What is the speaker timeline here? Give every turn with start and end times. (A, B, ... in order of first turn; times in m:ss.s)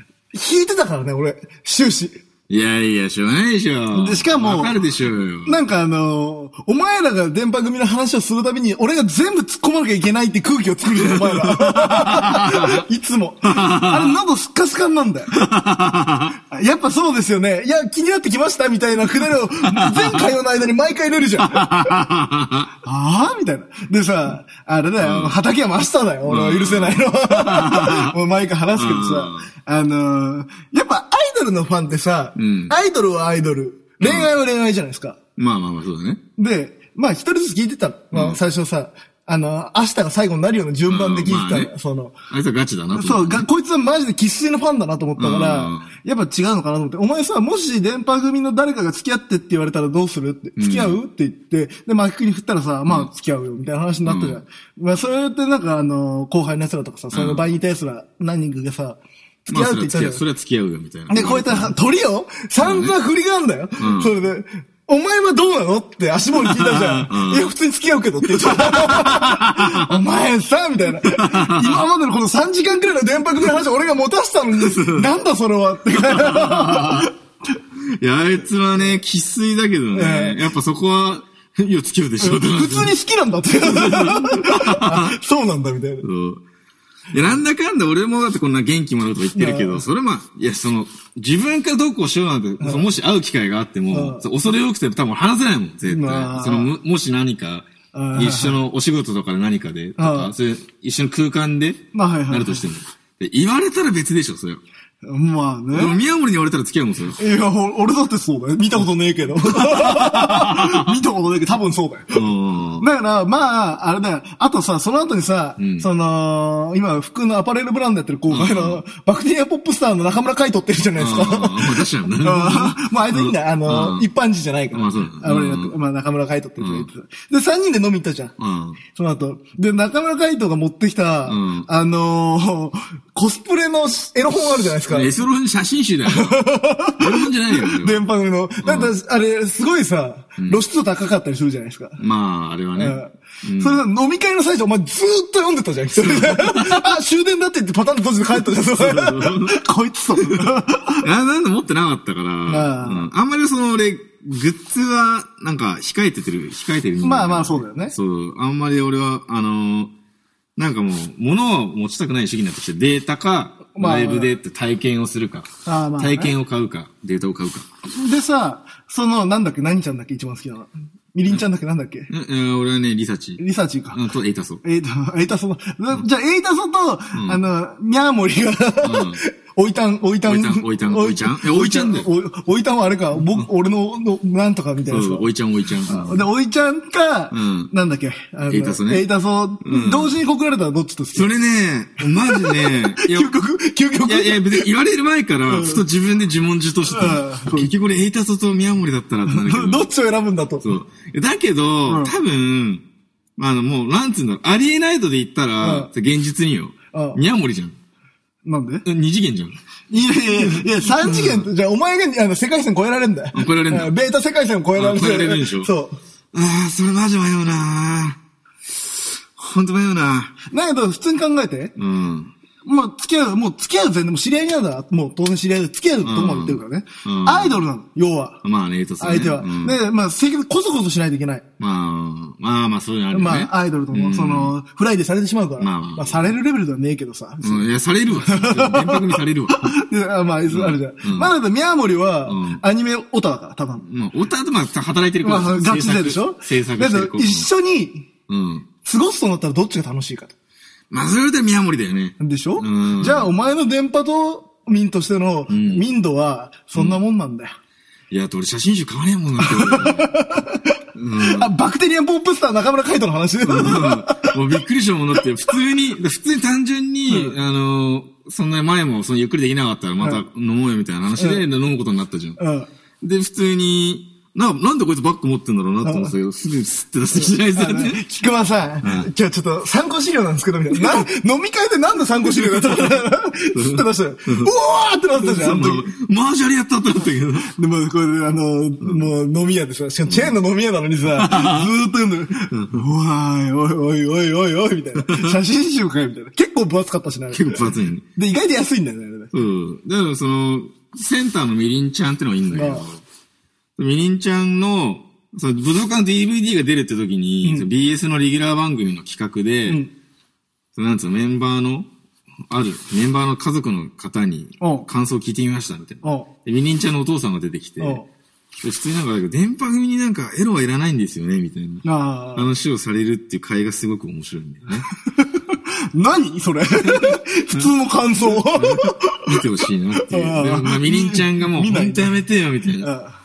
0:00.3-0:02.2 A
0:02.5-0:05.6 B
0:03.9-0:04.7 A
0:05.5-0:15.4 A
0:11.0-0:12.8 B
0:13.4-0:14.2 B
0:15.3-0:16.4 B
0:16.4-0:21.9 A
0:19.8-0:20.3 B
0:21.4-0:22.7 B
0:22.8-0:35.2 A
0:25.0-0:25.4 B
0:26.2-0:28.2 B
0:28.8-0:29.5 B
0:32.4-0:32.8 B
0:34.0-0:34.3 B
0:35.4-0:36.2 B
0:36.4-0:42.2 A
0:38.1-0:38.4 B
0:40.9-0:41.7 B
0:42.3-0:43.5 B
0:42.9-1:00.2 A
0:45.2-0:45.9 B
0:50.6-0:51.0 B
0:54.0-0:54.4 B
0:57.1-0:57.5 B
0:59.5-1:01.7 B
1:01.1-1:17.1 A
1:02.6-1:02.9 B
1:03.8-1:04.1 B
1:06.4-1:07.5 B
1:08.4-1:09.9 B
1:11.0-1:11.9 B
1:14.6-1:15.2 B
1:15.9-1:17.1 B
1:17.8-1:23.0 B
1:19.9-1:20.4 A
1:22.2-1:26.1 A
1:23.6-1:25.2 B
1:26.0-1:26.4 B
1:27.1-1:44.6 B
1:29.4-1:29.8 A
1:33.9-1:34.3 A
1:35.9-1:36.7 A
1:37.9-1:38.6 A
1:40.0-1:40.3 A
1:41.9-1:42.7 A
1:45.0-1:46.0 A
1:45.7-1:47.2 B
1:47.2-1:52.2 A
1:49.4-1:51.0 B
1:52.1-1:52.9 B
1:52.8-2:08.3 A
1:55.6-1:55.9 B
1:58.3-1:58.8 B
2:01.0-2:04.1 B
2:04.7-2:05.8 B
2:06.6-2:06.9 B
2:08.4-2:08.8 B
2:08.9-2:15.1 A
2:11.3-2:11.7 B
2:14.9-2:16.4 B
2:16.1-2:22.0 A
2:17.0-2:18.0 B
2:18.6-2:18.9 B
2:22.0-2:23.8 B
2:22.8-2:31.0 A
2:26.0-2:26.9 B
2:28.4-2:29.6 B
2:30.2-2:30.5 B
2:31.0-2:39.9 B
2:32.5-2:33.1 A
2:37.0-2:38.0 A
2:40.6-2:47.7 B
2:43.8-2:44.3 A
2:45.6-2:46.3 A
2:47.9-2:52.1 A
2:52.1-2:53.4 B
2:53.4-2:54.0 A
2:53.9-2:54.6 B
2:54.6-3:05.3 A
2:57.1-2:57.4 B
2:58.8-2:59.2 B
3:00.2-3:02.1 B
3:04.9-3:06.2 B
3:05.8-3:11.3 A
3:07.3-3:07.7 B
3:08.5-3:09.1 B
3:09.6-3:10.2 B
3:11.2-3:13.3 B
3:12.2-3:14.7 A
3:14.0-3:19.9 B
3:15.5-3:15.8 A
3:16.9-3:17.7 A
3:19.3-3:20.7 A
3:20.6-3:22.9 B
3:21.9-3:22.2 A
3:23.4-3:27.8 B
3:25.6-3:25.9 A
3:26.9-3:27.2 A
3:28.4-3:28.8 A
3:28.8-3:29.6 B
3:29.9-3:36.0 A
3:30.4-3:31.5 B
3:33.3-3:33.9 B
3:34.8-3:35.7 B
3:36.3-3:40.4 B
3:40.5-3:41.7 A
3:41.8-3:42.3 B
3:42.6-3:48.4 A
3:46.0-3:47.6 B
3:48.4-3:49.8 B
3:49.0-3:51.4 A
3:51.6-3:54.6 B
3:53.1-3:57.7 A
3:55.6-3:56.3 B
3:57.4-3:59.8 B
3:58.2-4:03.9 A
4:00.5-4:01.3 B
4:02.3-4:02.6 B
4:03.8-4:07.5 B
4:05.2-4:08.1 A
4:08.3-4:08.7 B
4:08.8-4:10.3 A
4:10.9-4:13.3 B
4:12.2-4:17.6 A
4:15.5-4:15.8 B
4:16.7-4:17.0 B
4:18.1-4:20.2 B
4:19.4-4:24.4 A
4:20.9-4:21.5 B
4:23.4-4:32.4 B
4:27.1-4:27.4 A
4:31.2-4:31.4 A
4:32.4-4:32.7 A
4:33.0-4:38.0 B
4:35.8-4:36.1 A
4:37.2-4:45.9 A
4:38.8-4:39.1 B
4:40.7-4:41.0 B
4:42.3-4:43.0 B
4:43.5-4:44.5 B
4:45.2-4:47.5 B
4:47.6-4:59.3 A
4:48.8-4:49.1 B
4:50.1-4:50.4 B
4:51.1-4:51.7 B
4:52.5-4:52.8 B
4:55.0-4:55.4 B
4:57.3-4:58.0 B
4:59.3-5:03.0 B
5:02.5-5:02.8 A
5:03.8-5:09.8 B
5:10.8-5:11.9 B
5:12.5-5:18.0 B
5:14.6-5:14.9 A
5:16.0-5:16.3 A
5:17.8-5:18.1 A
5:18.6-5:21.8 B
5:21.8-5:22.5 A
5:22.4-5:24.9 B
5:25.2-5:29.4 A
5:26.8-5:27.7 B
5:28.2-5:32.9 B
5:30.0-5:32.2 A
5:32.8-5:33.2 A